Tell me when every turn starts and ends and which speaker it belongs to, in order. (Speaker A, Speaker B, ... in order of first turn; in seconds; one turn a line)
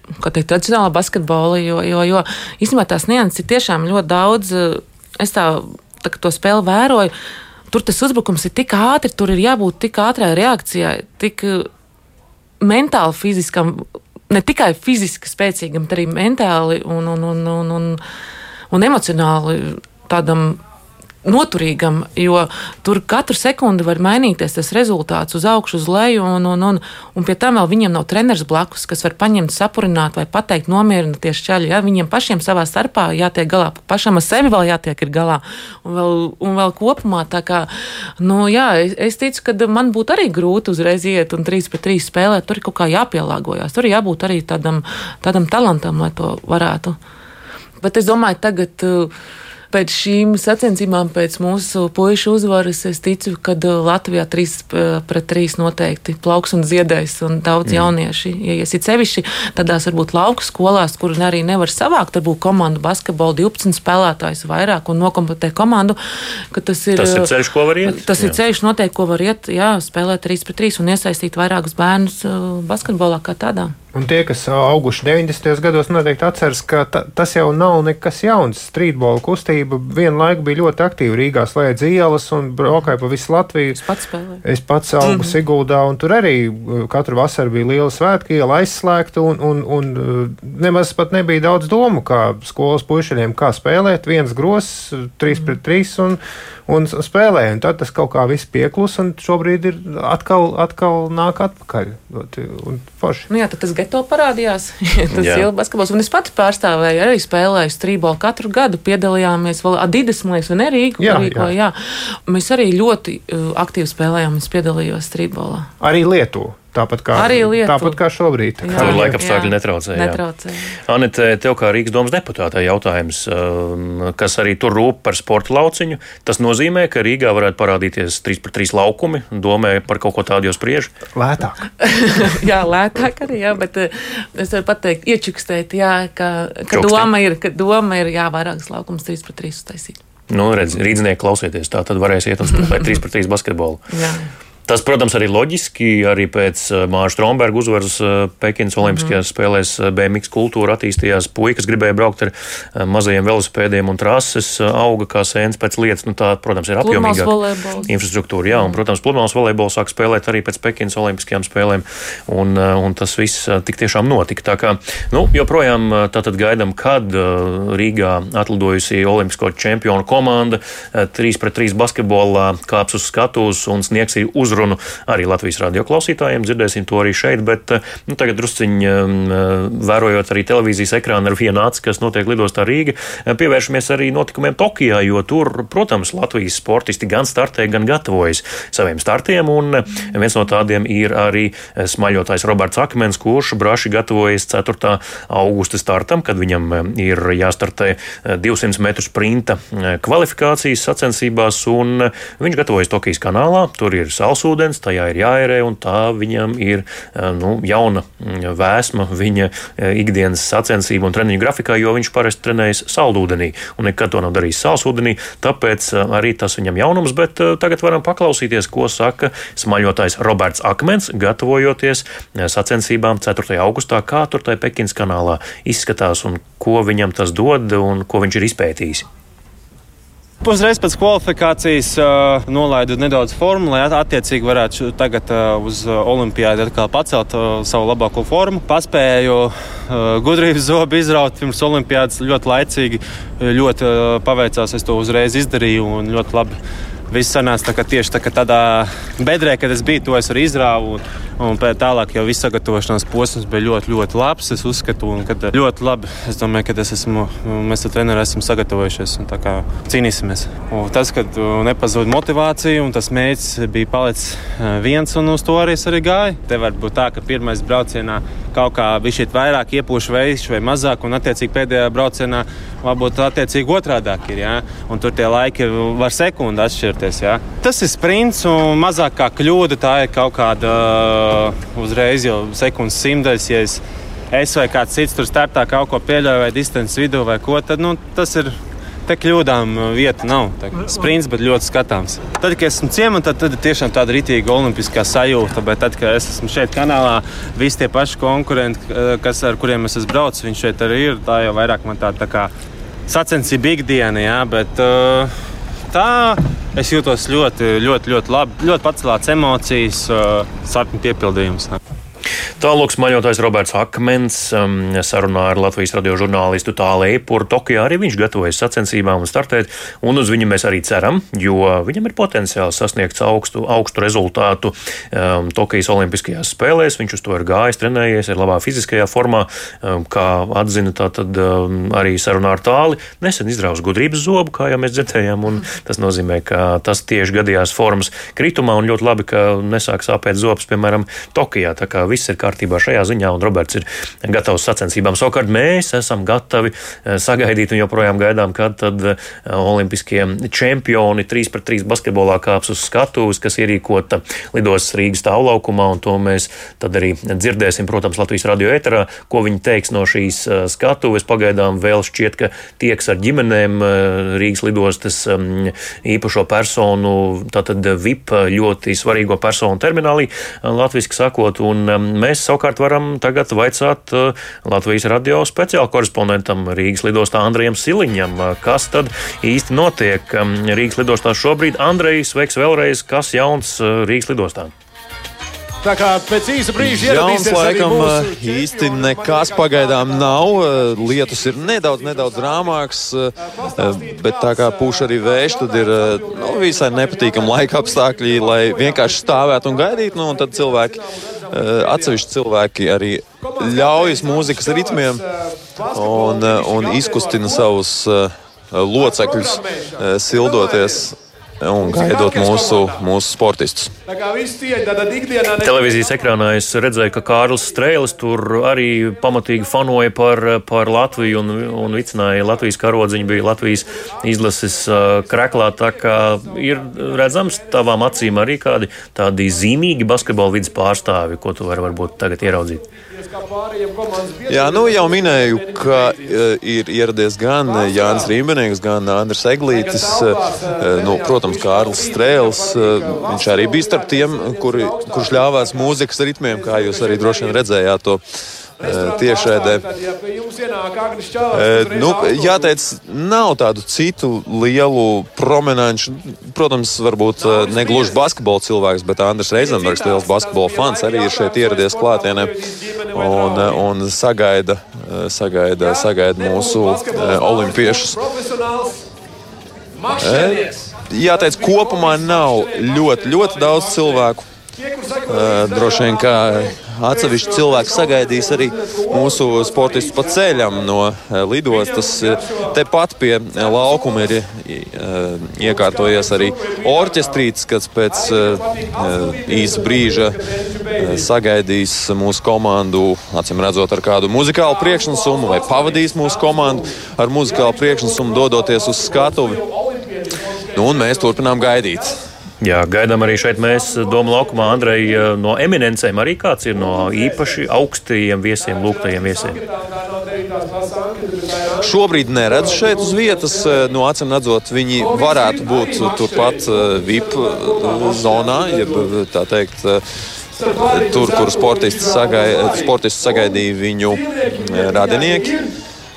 Speaker A: 0.2-7.1
Speaker A: 7.7-11.7
Speaker A: 12.6-18.0
Speaker A: 18.7-20.6
Speaker A: 21.2-37.7
Speaker A: 38.2-47.0
Speaker A: 47.8-49.1
Speaker A: 49.7-66.0
Speaker A: 66.5-67.3
Speaker B: 67.0-68.4
Speaker A: 67.9-73.8
Speaker C: 73.9-83.8
Speaker A: 83.7-84.4
Speaker C: 84.4-103.3
Speaker A: 85.0-85.4
Speaker A: 103.3-115.7
Speaker B: 105.2-105.5
Speaker C: 111.0-111.5
Speaker C: 115.8-119.2
Speaker A: 117.2-118.0
Speaker A: 118.6-120.8
Speaker B: 118.8-120.2
Speaker B: 120.9-130.9
Speaker C: 131.1-131.6
Speaker A: 131.8-140.0
Speaker B: 136.7-137.1
Speaker B: 140.3-143.8
Speaker A: 143.9-144.3
Speaker B: 144.7-157.3
Speaker A: 148.8-149.2
Speaker A: 156.8-157.9
Speaker B: 157.9-229.1
Speaker A: 158.5-158.8
Speaker D: 230.4-246.6
Speaker D: 247.1-302.5
Speaker D: 303.1-305.3
Speaker D: 305.9-311.8
Speaker B: 312.6-384.7
Speaker E: 385.8-392.8
Speaker F: 386.8-405.2
Speaker E: 393.4-402.3
Speaker E: 403.4-407.7
Speaker F: 405.9-413.9
Speaker E: 408.9-411.1
Speaker E: 411.8-413.1
Speaker E: 414.1-415.9
Speaker B: 415.6-432.8
Speaker E: 423.5-424.1
Speaker E: 425.0-428.4
Speaker E: 432.9-436.4
Speaker F: 434.5-448.2
Speaker E: 437.6-438.4
Speaker E: 439.7-447.6
Speaker E: 448.8-452.8
Speaker F: 448.8-449.8
Speaker F: 451.5-462.6
Speaker E: 457.4-458.2
Speaker E: 459.6-463.9
Speaker F: 463.1-468.2
Speaker E: 465.8-469.1
Speaker E: 470.0-480.9
Speaker F: 470.1-474.4
Speaker F: 475.3-490.4
Speaker E: 481.7-482.8
Speaker E: 483.6-484.4
Speaker E: 485.6-487.5
Speaker E: 488.1-491.3
Speaker F: 491.0-499.6
Speaker E: 494.6-502.2
Speaker F: 500.8-502.2
Speaker B: 502.6-509.6
Speaker E: 503.4-505.4
Speaker E: 506.7-507.7
Speaker E: 508.6-514.0
Speaker F: 511.8-520.0
Speaker E: 515.0-519.1
Speaker E: 520.5-525.7
Speaker F: 520.9-525.6